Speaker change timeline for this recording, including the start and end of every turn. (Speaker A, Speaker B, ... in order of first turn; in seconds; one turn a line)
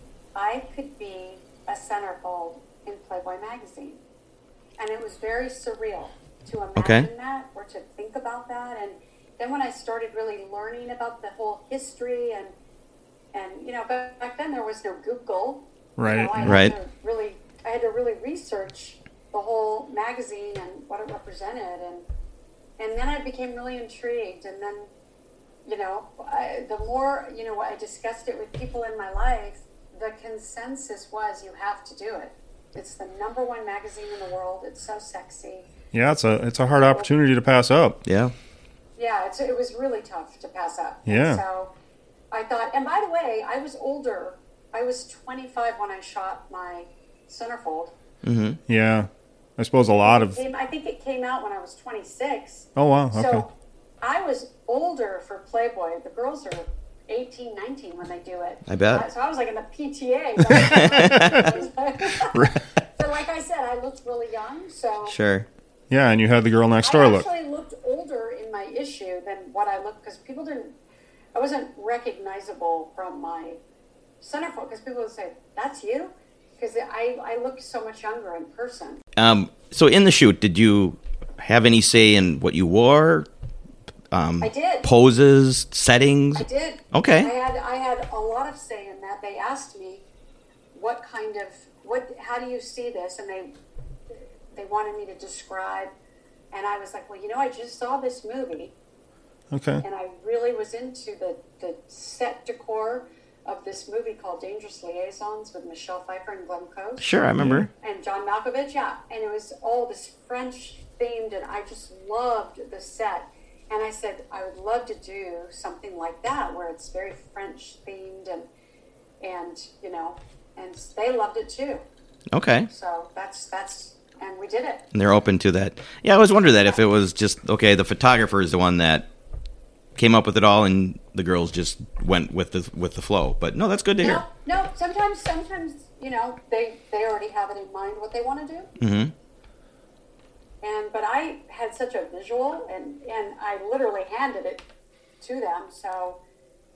Speaker A: 0.3-4.0
Speaker A: 4.8-12.5
Speaker B: 6.8-7.1
Speaker A: 13.3-22.1
Speaker C: 16.0-16.6
Speaker B: 16.4-16.8
Speaker A: 22.8-24.9
Speaker A: 25.6-35.7
Speaker C: 35.9-38.0
Speaker A: 36.8-37.1
Speaker B: 38.1-38.3
Speaker A: 39.0-41.7
Speaker C: 41.1-41.4
Speaker A: 42.3-47.9
Speaker B: 48.2-48.6
Speaker C: 48.7-50.4
Speaker A: 50.0-62.4
Speaker C: 52.8-53.5
Speaker B: 58.7-59.0
Speaker B: 60.6-61.5
Speaker C: 62.3-62.6
Speaker A: 63.0-65.2
Speaker B: 65.1-65.5
Speaker C: 65.9-67.3
Speaker A: 66.8-70.8
Speaker A: 71.3-73.6
Speaker A: 74.2-79.0
Speaker B: 79.2-83.3
Speaker B: 84.1-87.3
Speaker A: 84.4-84.9
Speaker A: 86.3-90.0
Speaker A: 90.7-93.5
Speaker A: 94.1-95.9
Speaker A: 96.5-98.7
Speaker C: 99.5-99.8
Speaker A: 99.8-107.2
Speaker B: 107.0-107.7
Speaker C: 107.4-107.7
Speaker A: 107.8-118.5
Speaker A: 119.2-121.8
Speaker B: 122.3-122.7
Speaker A: 122.7-124.8
Speaker B: 124.9-129.1
Speaker B: 130.0-134.2
Speaker A: 134.0-138.7
Speaker B: 138.8-139.1
Speaker A: 140.6-144.6
Speaker A: 145.2-146.2